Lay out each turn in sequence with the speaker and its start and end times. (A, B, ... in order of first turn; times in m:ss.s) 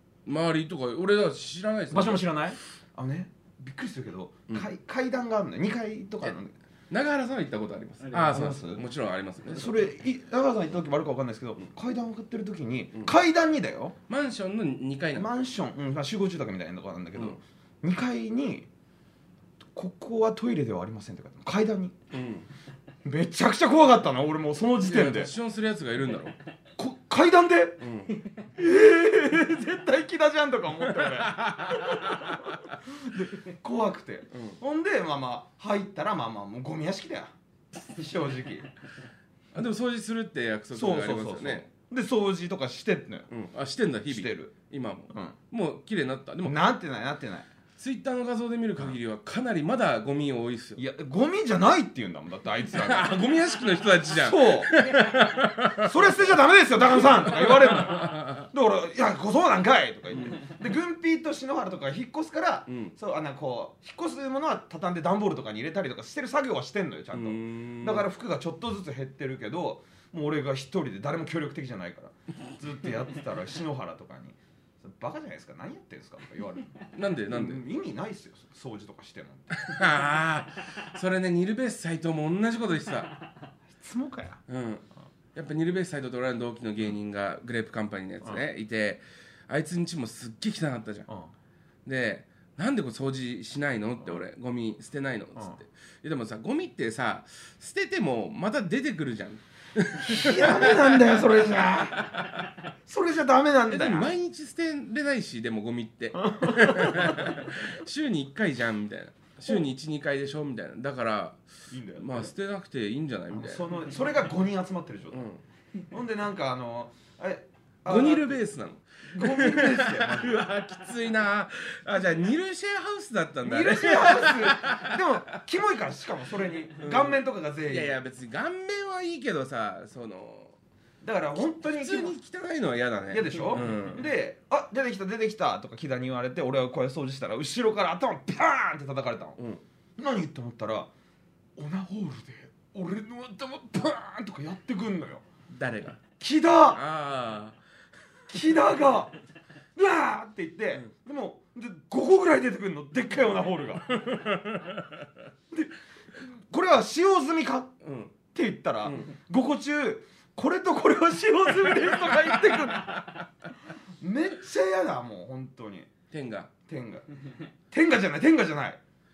0:00.2-0:02.2 A
0:01.9-0:06.6 B
0:06.9-0:09.9 A
0:08.0-0:08.8 B
0:09.5-0:13.9 B
0:14.1-0:15.3 A
0:15.1-0:18.7 B
0:19.7-0:21.9 B
0:22.1-0:22.5 A
0:23.0-0:25.3 B
0:24.8-0:26.4 A
0:26.8-0:27.8 B
0:27.8-0:28.2 A
0:28.5-0:38.7 B
0:30.8-0:32.5 A
0:34.3-0:34.6 A
0:39.5-0:41.7 A
0:40.7-0:43.3 B
0:43.3-0:46.6 A
0:44.1-0:44.5 B
0:45.1-0:45.4 B
0:46.4-0:47.5 B
0:47.8-0:50.8 A
0:50.8-0:53.2 B
0:52.7-0:55.9 A
0:54.1-0:54.8 B
0:55.7-1:16.8 B
0:56.9-0:58.4 A
1:00.1-1:00.4 A
1:02.7-1:02.9 A
1:07.1-1:08.1 A
1:16.9-1:17.6 A
1:17.3-1:19.8 B
1:19.5-1:23.1 A
1:23.7-1:24.4 B
1:24.5-1:31.1 A
1:31.8-1:41.6 A
1:40.0-1:42.2 B
1:42.1-1:42.4 A
1:42.8-1:44.1 B
1:43.7-1:51.4 A
1:46.2-1:47.4 B
1:51.7-1:52.3 B
1:52.0-1:53.6 A
1:53.3-1:55.3 B
1:55.1-1:55.4 A
1:55.9-1:58.4 B
1:57.8-2:05.0 A
1:59.1-2:00.4 B
2:03.4-2:07.9 B
2:06.8-2:10.5 A
2:11.0-2:12.2 B
2:11.4-2:14.1 A
2:13.1-2:19.4 B
2:20.0-2:20.9 B
2:21.6-2:25.2 B
2:25.5-2:26.0 A
2:26.2-2:26.8 B
2:26.7-2:27.6 A
2:28.3-2:29.1 B
2:29.7-2:34.1 B
2:33.9-2:35.0 A
2:35.5-2:37.7 B
2:37.8-2:38.1 A
2:38.3-2:43.2 B
2:38.8-2:39.1 A
2:41.6-2:42.2 A
2:44.0-2:45.9 B
2:46.1-2:46.5 A
2:46.7-2:47.1 B
2:47.7-2:48.8 B